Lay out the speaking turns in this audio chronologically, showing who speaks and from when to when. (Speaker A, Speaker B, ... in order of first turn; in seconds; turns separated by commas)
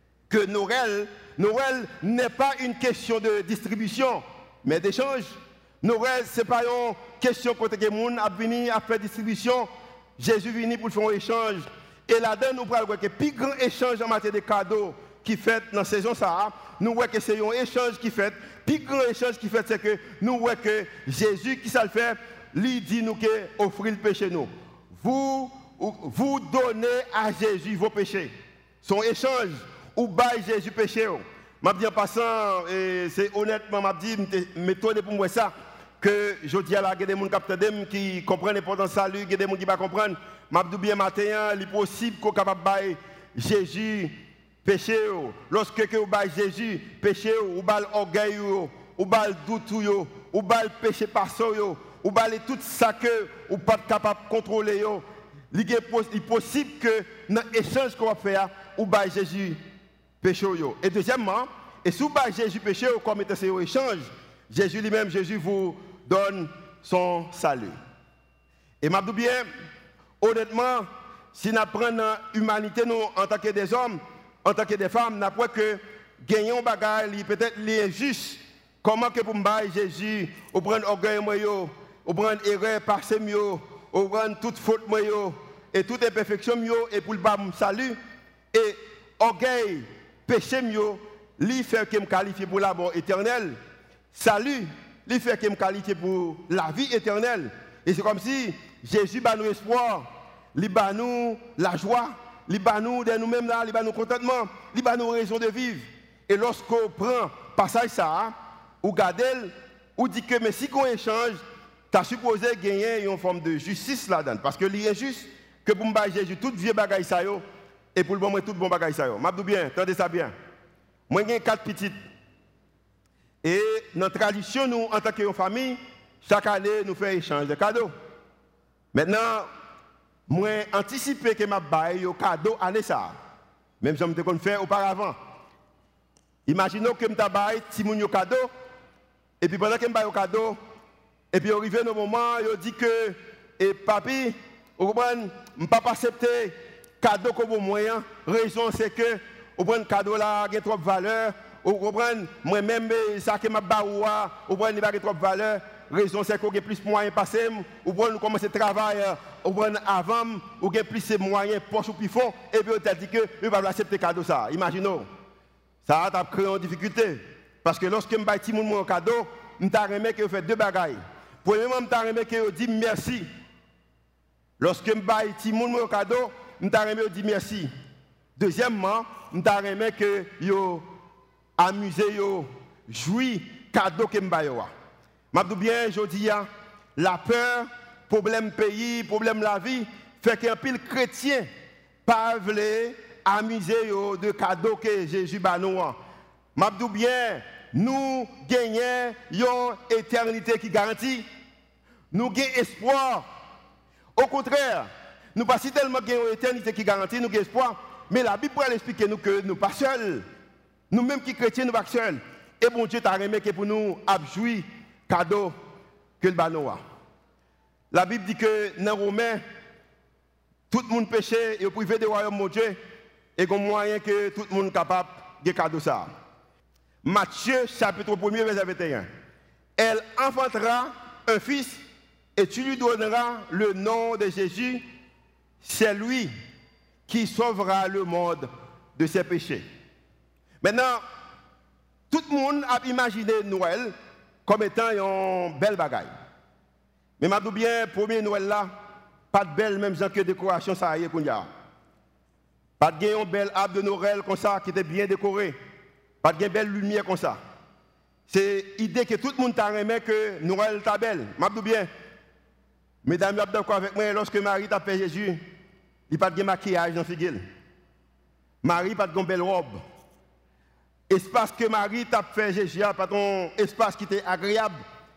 Speaker A: 0.3-28.3, Speaker A: 28.8-59.6, Speaker A: 60.2-67.7, Speaker A: 68.8-69.5, Speaker A: 70.2-88.0, Speaker A: 88.5-93.6, Speaker A: 94.1-111.4, Speaker A: 111.9-117.4, Speaker A: 117.9-120.3, Speaker A: 121.1-121.9, Speaker A: 123.4-127.9, Speaker A: 128.9-129.5, Speaker A: 130.3-133.1, Speaker A: 133.8-135.2, Speaker A: 136.5-138.5, Speaker A: 139.4-140.6, Speaker A: 141.3-165.1, Speaker A: 165.8-173.2, Speaker A: 174.6-177.7, Speaker A: 178.3-180.8, Speaker A: 181.6-184.7, Speaker A: 185.3-191.5, Speaker A: 192.0-196.0, Speaker A: 196.6-201.2, Speaker A: 202.1-203.2, Speaker A: 204.2-210.2, Speaker A: 210.9-215.5, Speaker A: 216.2-216.8, Speaker A: 217.9-219.4, Speaker A: 220.7-222.8, Speaker A: 223.4-226.1, Speaker A: 227.0-229.1, Speaker A: 229.8-231.8, Speaker A: 232.3-234.8, Speaker A: 235.6-236.3, Speaker A: 237.1-239.6, Speaker A: 240.6-241.0, Speaker A: 242.1-243.9, Speaker A: 244.4-246.1, Speaker A: 247.2-248.7, Speaker A: 249.3-251.4, Speaker A: 252.8-255.5, Speaker A: 256.2-257.4, Speaker A: 258.3-261.9, Speaker A: 263.0-265.4, Speaker A: 266.1-267.4, Speaker A: 268.6-269.8, Speaker A: 271.1-274.8